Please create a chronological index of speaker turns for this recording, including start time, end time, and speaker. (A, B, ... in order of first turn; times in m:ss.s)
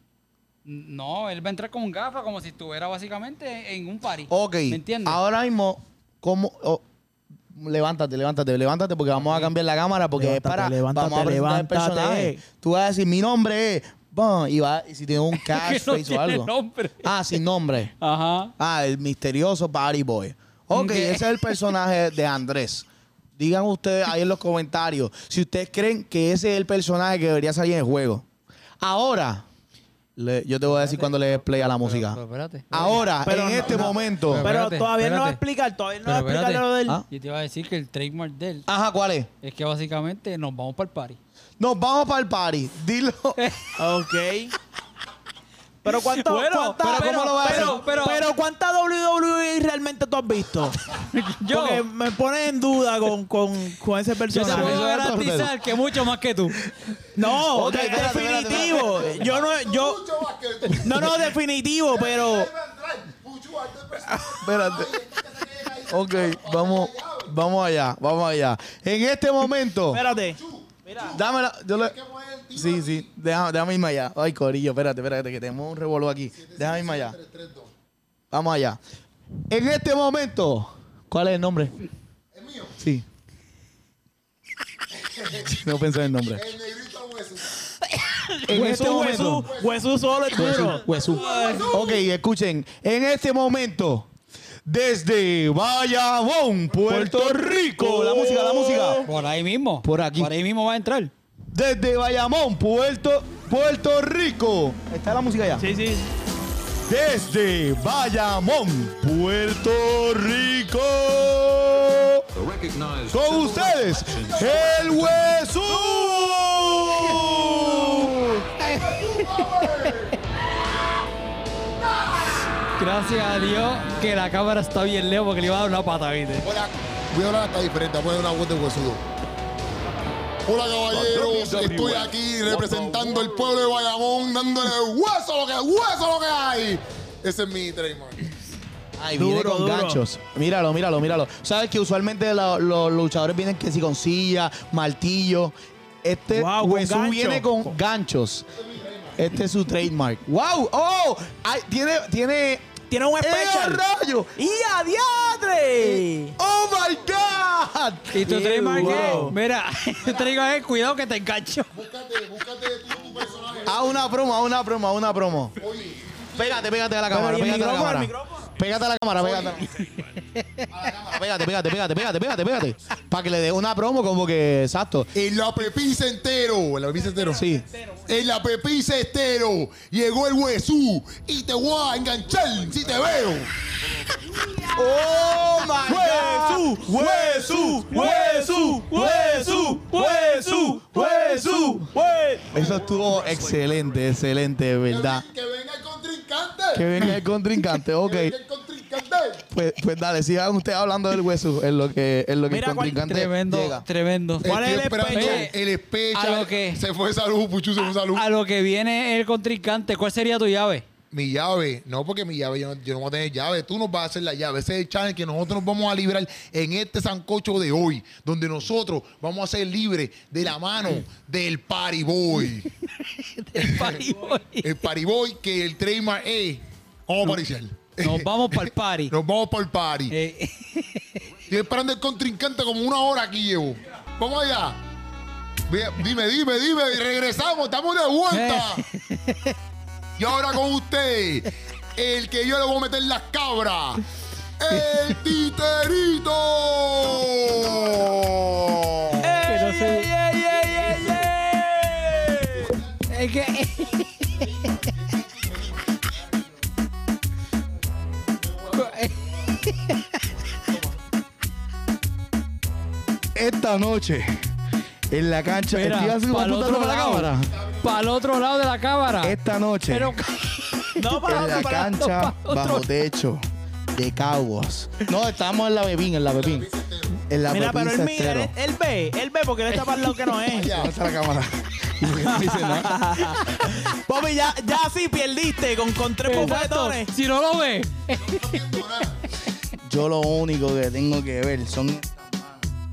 0:00.6-0:05.2 A
0:04.3-0:06.8 B
0:07.5-0:16.5 B
0:09.2-0:09.5 A
0:10.2-0:12.4 C
0:15.3-0:17.1 A
0:17.0-0:17.9 B
0:18.0-0:18.5 A
0:18.6-0:22.8 B
0:20.7-0:21.6 A
0:23.4-0:28.2 B
0:28.8-0:29.4 B
0:30.2-0:32.2 B
0:30.8-0:33.0 A
0:32.7-0:34.5 B
0:32.8-0:37.0 C
0:34.3-0:35.4 A
0:36.0-0:38.6 A
0:38.7-0:39.3 B
0:39.4-0:41.2 A
0:41.6-0:43.4 B
0:43.4-0:43.7 A
0:43.8-0:44.5 C
0:45.8-0:50.8 C
0:45.9-0:48.2 A
0:46.8-0:47.8 B
0:51.1-0:51.8 A
0:51.4-0:54.8 C
0:54.3-0:55.5 B
0:54.3-0:56.6 A
0:57.1-1:00.0 C
0:57.2-0:59.4 B
0:58.5-1:01.3 D
1:00.8-1:02.5 C
1:01.9-1:07.4 D
1:04.2-1:04.9 B
1:05.9-1:10.0 B
1:09.9-1:11.2 C
1:10.0-1:13.1 D
1:11.1-1:11.9 B
1:12.5-1:17.2 B
1:16.3-1:17.7 D
1:18.3-1:18.8 B
1:19.5-1:21.8 B
1:22.3-1:22.8 D
1:22.8-1:23.0 B
1:24.9-1:25.6 D
1:25.4-1:26.4 B
1:26.3-1:27.6 D
1:28.4-1:29.5 B
1:28.4-1:31.9 C
1:29.0-1:31.9 D
1:30.3-1:34.1 B
1:31.3-1:31.6 A
1:34.6-1:39.0 B
1:36.9-1:39.1 C
1:39.0-1:41.1 A
1:39.8-1:40.3 B
1:41.5-1:45.7 B
1:45.6-1:46.1 C
1:46.9-1:58.5 B
1:53.2-1:55.2 D
1:55.8-1:56.1 D
1:57.4-1:58.0 D
1:58.6-1:59.7 A
1:58.6-2:00.2 D
2:01.9-2:02.5 D
2:02.8-2:06.4 A
2:06.4-2:09.0 D
2:10.4-2:18.3 D
2:10.9-2:13.4 B
2:19.0-2:28.4 B
2:19.2-2:20.0 C
2:26.3-2:27.7 C
2:28.5-2:29.2 D
2:29.2-2:32.7 B
2:32.9-2:33.8 C
2:33.2-2:34.3 B
2:34.4-2:36.4 C
2:35.8-2:38.1 B
2:38.1-2:41.7 A
2:38.2-2:39.4 C
2:38.8-2:39.2 B
2:41.7-2:44.2 D
2:43.6-2:45.6 B
2:45.6-2:46.7 D
2:46.4-2:49.8 B
2:47.1-2:48.5 C
2:49.2-2:49.5 D
2:50.7-2:51.3 D
2:51.1-2:55.1 B
2:55.1-2:57.4 D
2:57.0-2:58.1 C
2:57.3-2:57.6 B
2:58.1-3:03.5 D
3:04.4-3:12.5 C
3:04.7-3:11.9 B
3:08.9-3:09.7 A
3:12.5-3:15.2 B
3:12.5-3:12.8 D
3:14.9-3:17.2 D
3:16.7-3:18.4 B
3:18.0-3:19.4 D
3:19.5-3:23.8 B
3:22.5-3:23.0 C
3:23.0-3:25.5 A
3:24.4-3:28.2 D
3:24.4-3:25.5 C
3:26.1-3:26.8 A
3:28.1-3:30.8 A
3:31.1-3:42.7 D
3:43.0-3:44.7 A
3:43.6-3:43.9 D
3:43.8-3:44.1 C
3:44.6-3:50.2 D
3:48.0-3:49.1 A
3:50.1-3:51.2 A
3:51.5-3:54.8 D
3:55.7-3:58.8 D
3:58.3-3:59.5 A
4:00.2-4:04.0 D
4:04.6-4:09.4 D
4:09.2-4:12.8 C
4:09.4-4:10.1 A
4:10.6-4:11.2 D
4:12.6-4:16.6 D
4:13.1-4:14.5 A
4:18.3-4:19.7 D
4:18.7-4:20.3 A
4:20.6-4:21.0 D
4:23.4-4:24.4 B
4:25.1-4:27.5 B
4:25.7-4:29.4 A
4:27.5-4:27.9 D
4:29.2-4:30.2 B
4:29.9-4:32.8 A
4:31.0-4:31.9 C
4:31.2-4:33.4 B
4:33.9-4:36.7 B
4:36.4-4:37.2 D
4:37.3-4:38.5 B
4:37.5-4:40.7 C
4:40.5-4:41.0 D
4:40.6-4:43.6 B
4:42.2-4:47.1 C
4:46.2-4:48.5 A
4:48.2-4:49.4 D
4:49.8-4:52.7 B